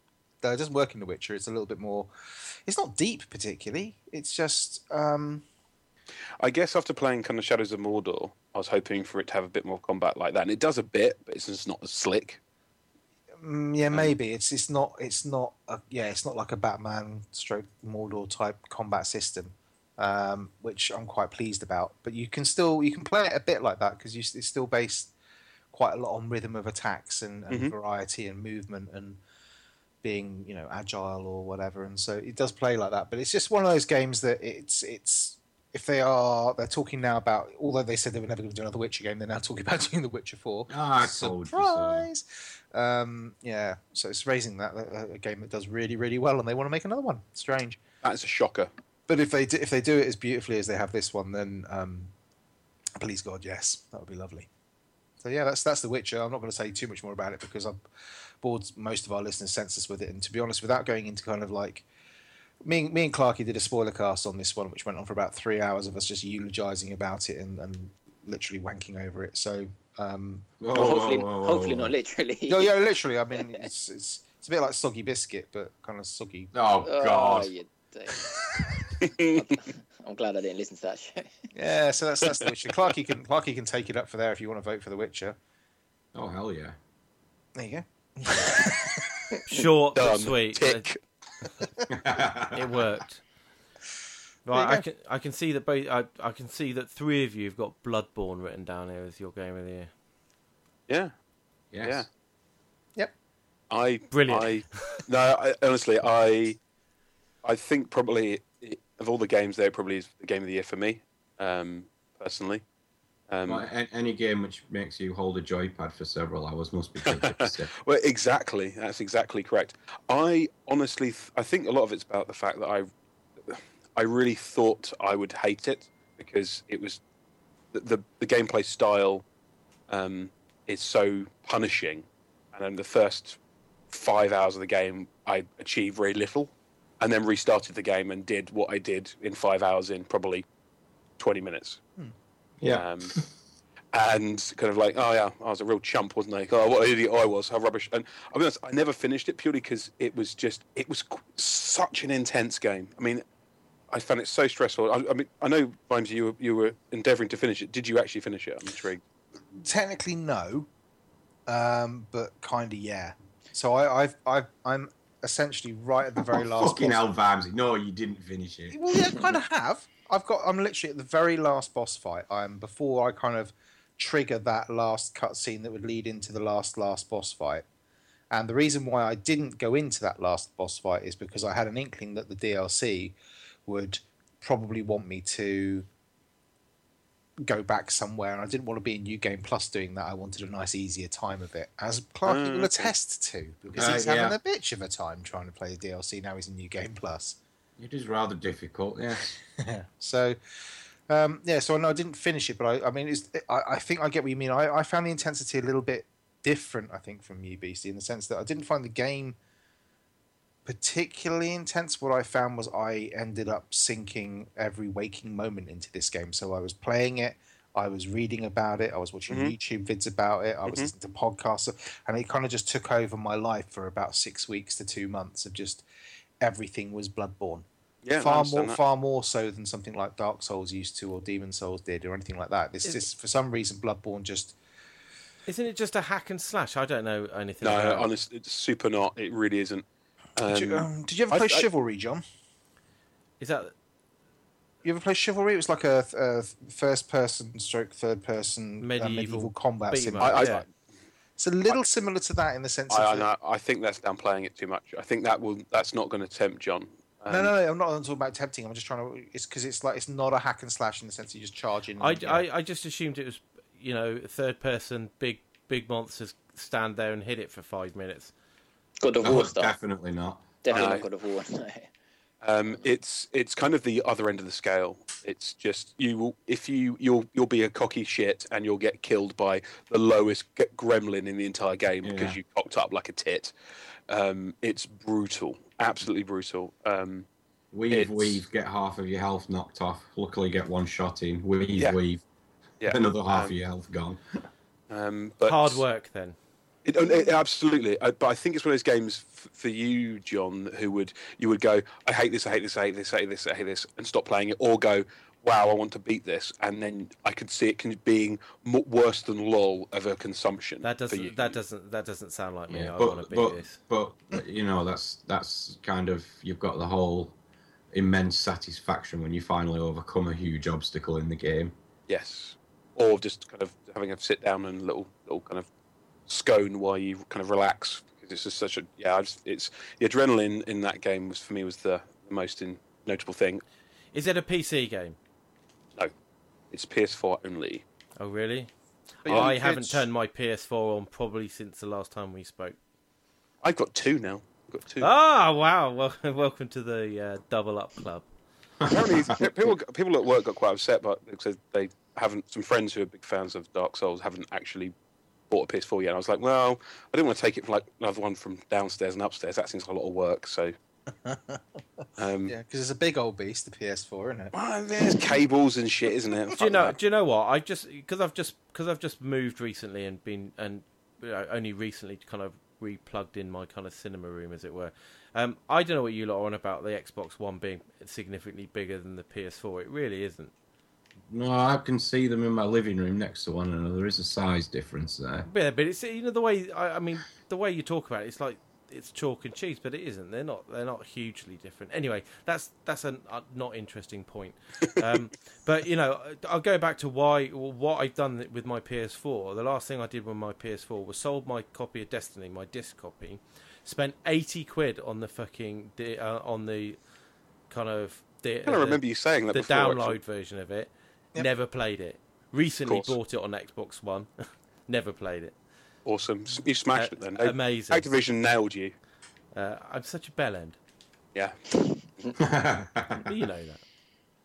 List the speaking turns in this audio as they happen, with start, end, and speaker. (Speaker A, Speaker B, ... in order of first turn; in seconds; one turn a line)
Speaker A: 0.4-5.5
Speaker B: 6.4-12.4
Speaker A: 13.4-25.1
Speaker A: 25.7-29.2
Speaker B: 27.5-27.8
Speaker A: 30.0-47.8
Speaker C: 40.7-42.1
Speaker B: 48.0-48.7
Speaker A: 49.1-52.1
Speaker A: 53.0-54.5
Speaker A: 55.2-57.9
Speaker A: 58.4-61.9
Speaker A: 62.6-70.5
Speaker C: 70.6-71.9
Speaker D: 70.7-72.7
Speaker A: 72.5-76.5
Speaker C: 76.5-77.5
Speaker D: 76.8-78.5
Speaker B: 79.0-79.5
Speaker D: 79.2-81.3
Speaker A: 81.5-85.4
Speaker C: 86.1-86.8
Speaker A: 87.6-89.3
Speaker E: 89.5-90.9
Speaker B: 90.0-91.0
Speaker C: 91.9-92.8
Speaker E: 92.5-93.2
Speaker E: 94.5-99.9
Speaker A: 94.5-94.8
Speaker C: 101.7-102.0
Speaker B: 103.7-106.6
Speaker E: 104.1-105.0
Speaker B: 107.4-112.6
Speaker B: 113.3-113.7
Speaker C: 113.5-117.7
Speaker B: 117.0-122.9
Speaker B: 123.5-127.0
Speaker B: 127.7-129.2
Speaker B: 129.9-133.4
Speaker B: 133.9-140.5
Speaker B: 141.2-141.8
Speaker C: 142.6-143.3
Speaker B: 142.7-143.2
Speaker B: 143.9-153.2
Speaker B: 153.9-159.0
Speaker A: 159.6-160.7
Speaker A: 161.5-167.0
Speaker C: 166.3-168.8
Speaker A: 168.7-177.7
Speaker A: 178.3-185.9
Speaker A: 187.4-197.4
Speaker B: 192.2-192.9
Speaker C: 193.8-194.4
Speaker C: 197.8-199.3
Speaker A: 199.4-200.4
Speaker A: 201.1-209.4
Speaker A: 210.7-225.8
Speaker B: 219.3-219.6
Speaker B: 220.7-220.9
Speaker A: 226.4-227.7
Speaker B: 228.0-228.8
Speaker A: 228.2-234.6
Speaker E: 235.5-238.1
Speaker B: 237.6-239.8
Speaker B: 240.4-241.7
Speaker A: 240.5-242.2
Speaker E: 243.4-243.7
Speaker A: 244.8-250.5
Speaker E: 248.8-250.7
Speaker B: 250.2-250.7
Speaker A: 251.4-253.3
Speaker B: 252.9-257.5
Speaker A: 257.3-262.5
Speaker E: 262.0-268.3
Speaker D: 269.0-269.8
Speaker C: 269.2-270.6
Speaker D: 270.6-271.9
Speaker B: 270.7-271.1
Speaker B: 272.4-283.5
Speaker C: 282.0-282.4
Speaker B: 284.1-287.3
Speaker C: 287.7-292.2
Speaker B: 287.9-288.4
Speaker B: 292.8-293.5
Speaker C: 292.9-294.2
Speaker B: 294.9-295.8
Speaker E: 295.4-296.4
Speaker B: 296.9-311.6
Speaker E: 310.8-313.8
Speaker C: 312.7-317.4
Speaker C: 317.9-321.7
Speaker B: 322.1-325.7
Speaker B: 326.3-333.6
Speaker E: 334.1-335.2
Speaker B: 336.7-337.8
Speaker E: 338.2-338.7
Speaker A: 339.2-340.1
Speaker E: 339.2-342.8
Speaker B: 339.3-339.5
Speaker B: 343.6-345.1
Speaker E: 345.0-348.2
Speaker B: 348.9-354.9
Speaker B: 355.5-360.7
Speaker A: 361.1-364.5
Speaker B: 362.2-362.6
Speaker B: 364.5-367.0
Speaker E: 366.6-380.5
Speaker C: 381.3-385.5
Speaker E: 385.4-407.0
Speaker E: 407.7-414.3
Speaker B: 408.7-410.2
Speaker B: 412.9-413.2
Speaker E: 414.9-415.6
Speaker B: 416.1-418.9
Speaker E: 416.9-418.1
Speaker E: 419.5-420.8
Speaker C: 422.4-423.3
Speaker E: 423.2-423.8